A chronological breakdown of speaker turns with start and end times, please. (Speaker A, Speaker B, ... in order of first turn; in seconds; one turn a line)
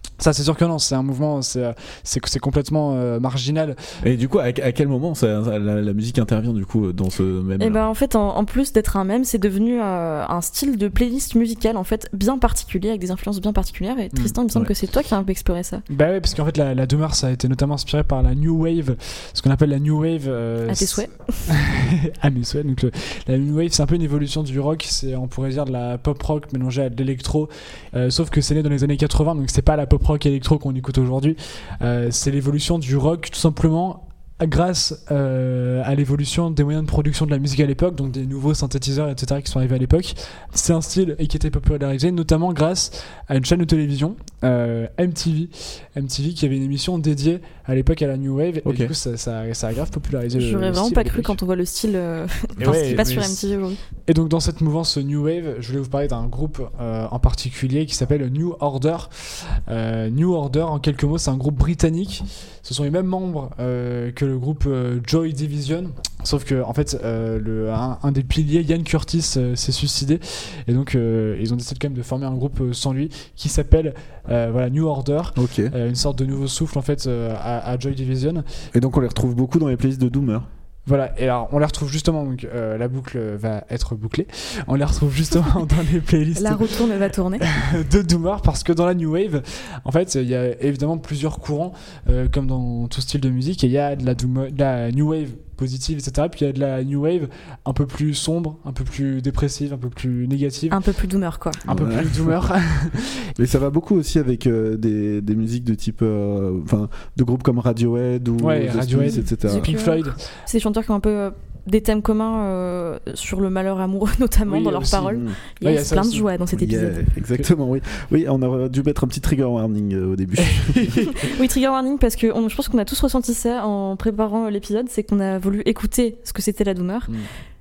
Speaker A: 0.2-3.8
Speaker B: 4.0-7.8
Speaker C: 7.6-15.8
Speaker A: 14.1-14.4
Speaker A: 15.9-51.4
Speaker C: 20.7-21.5
Speaker B: 48.6-48.9
Speaker C: 50.4-53.8
Speaker A: 52.6-53.4
Speaker A: 54.1-78.4
Speaker B: 75.4-75.7
Speaker B: 78.7-80.5
Speaker A: 80.8-100.8
Speaker C: 86.3-87.4
Speaker C: 100.7-101.6
Speaker A: 101.6-103.3
Speaker B: 101.7-102.3
Speaker B: 103.4-109.7
Speaker A: 108.4-110.2
Speaker C: 109.1-117.1
Speaker A: 114.5-116.3
Speaker B: 115.1-115.4
Speaker B: 116.5-121.2
Speaker A: 120.5-121.0
Speaker C: 121.0-127.1